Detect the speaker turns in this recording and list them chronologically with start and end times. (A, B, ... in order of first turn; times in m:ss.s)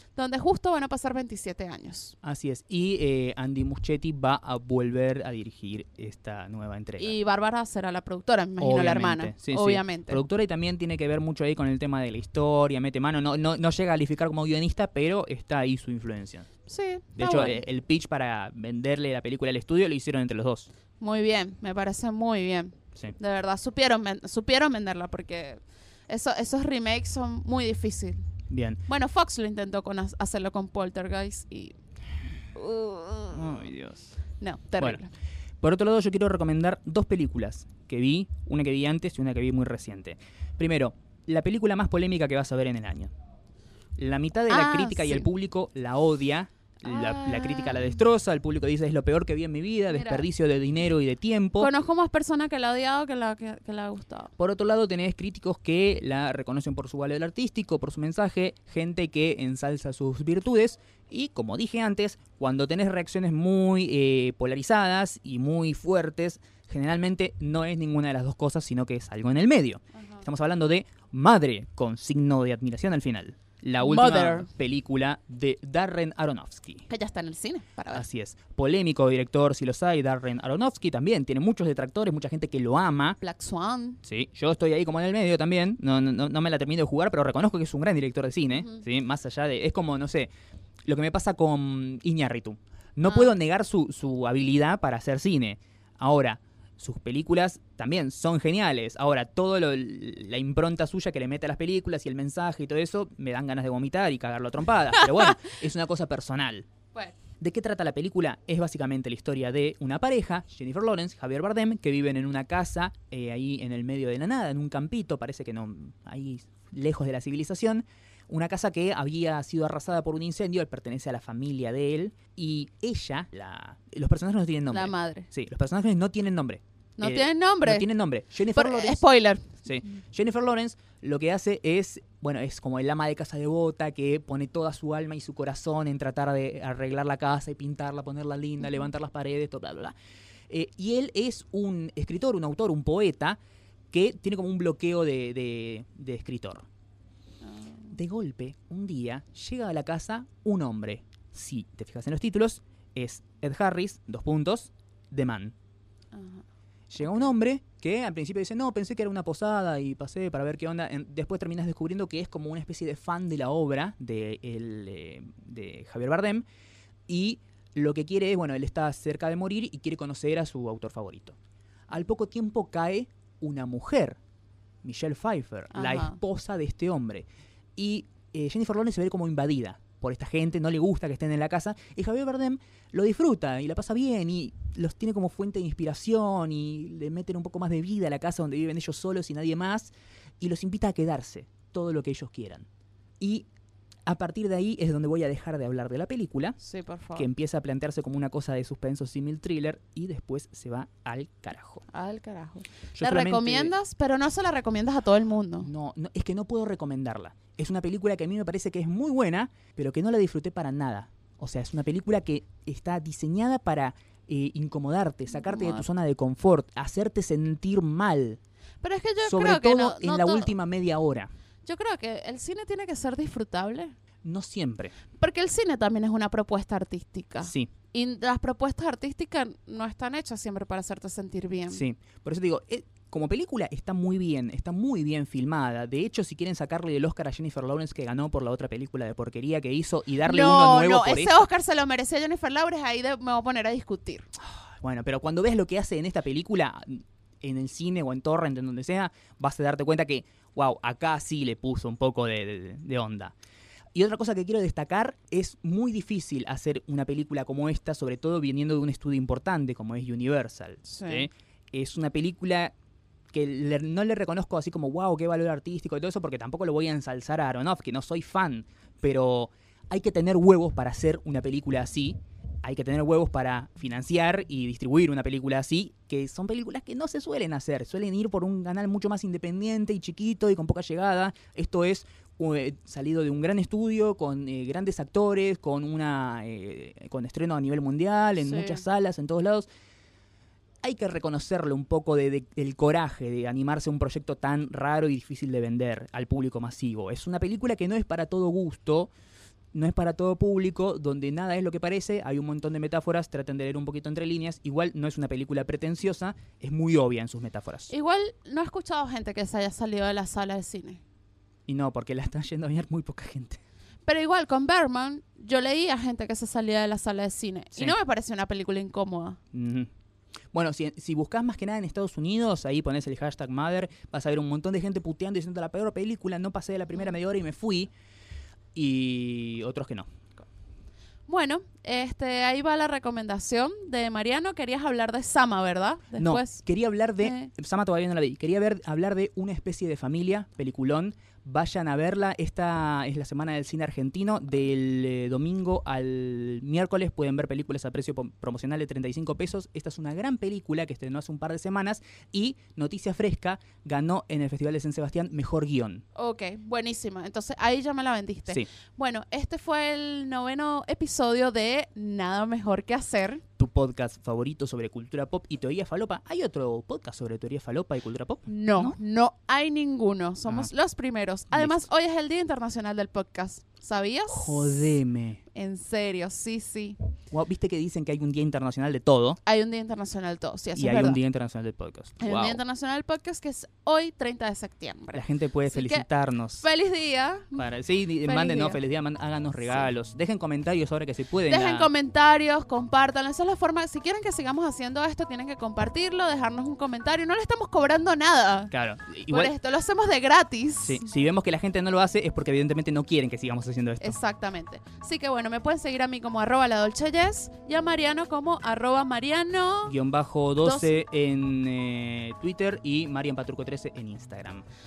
0:00.2-0:02.1 A
0:02.2-0:07.2 B
0:07.0-0:10.2 A
0:08.6-0:16.5 B
0:16.7-0:17.6 A
0:17.2-0:20.7 B
0:21.0-0:28.3 A
0:28.5-0:28.8 B
0:28.9-0:31.7 A
0:32.5-0:33.6 A
0:33.3-0:34.1 B
0:34.4-0:35.1 A
0:35.6-0:43.1 B
0:44.0-0:51.7 B
0:44.5-0:45.3 A
0:46.8-0:48.0 A
0:49.9-0:50.2 A
0:51.6-0:54.3 A
0:54.4-1:16.8 B
1:10.0-1:10.2 A
1:13.8-1:14.5 A
1:16.9-1:18.0 A
1:17.9-1:23.2 B
1:23.2-1:24.0 A
1:24.0-1:30.3 B
1:30.8-1:46.7 B
1:33.0-1:33.3 A
1:45.0-1:45.5 A
1:47.4-2:09.0 B
2:04.7-2:05.3 A
2:07.0-2:07.9 A
2:08.5-2:09.6 A
2:09.6-2:19.9 B
2:20.5-2:23.4 B
2:23.9-2:26.6 B
2:27.4-2:28.0 A
2:27.9-2:35.5 B
2:36.1-2:36.4 A
2:36.9-2:46.4 B
2:47.1-2:51.4 B
2:51.9-2:54.2 B
2:54.8-3:12.6 B
2:55.7-2:56.2 A
3:13.2-3:13.5 B
3:14.0-3:16.6 B
3:16.6-3:17.3 A
3:17.2-3:21.8 B
3:21.9-3:25.7 A
3:22.9-3:23.7 B
3:25.6-3:38.4 B
3:35.3-3:35.8 A
3:38.8-3:40.5 A
3:39.2-3:41.3 B
3:41.6-3:43.9 A
3:44.2-3:44.9 B
3:45.2-3:51.8 A
3:47.4-3:47.7 B
3:51.7-4:01.4 B
4:00.2-4:04.3 A
4:04.4-4:13.3 B
4:13.9-4:22.7 B
4:20.8-4:21.3 A
4:23.3-4:49.7 B
4:48.4-4:48.8 A
4:50.8-4:59.1 B
4:59.7-5:07.9 B
5:07.9-5:11.0 A
5:11.7-5:13.6 B
5:14.0-5:19.4 A
5:19.5-5:19.9 B
5:20.5-5:27.9 B
5:28.7-5:30.1 B
5:31.3-5:36.6 A
5:36.2-5:56.0 B
5:37.2-5:37.5 A
5:56.1-6:03.4 A
6:03.6-6:09.0 B
6:08.5-6:15.0 A
6:11.5-6:11.8 B
6:14.3-6:15.4 B
6:15.5-6:17.0 A
6:17.3-6:19.4 B
6:19.4-6:21.2 A
6:20.8-6:22.6 B
6:22.2-6:26.0 A
6:25.1-6:26.6 B
6:26.6-6:27.6 A
6:27.6-6:31.9 B
6:28.2-6:28.8 A
6:31.5-6:38.7 A
6:38.7-6:39.5 B
6:39.3-6:41.0 A
6:40.8-6:44.2 B
6:44.0-6:49.9 A
6:49.8-6:54.6 B
6:50.6-6:50.9 A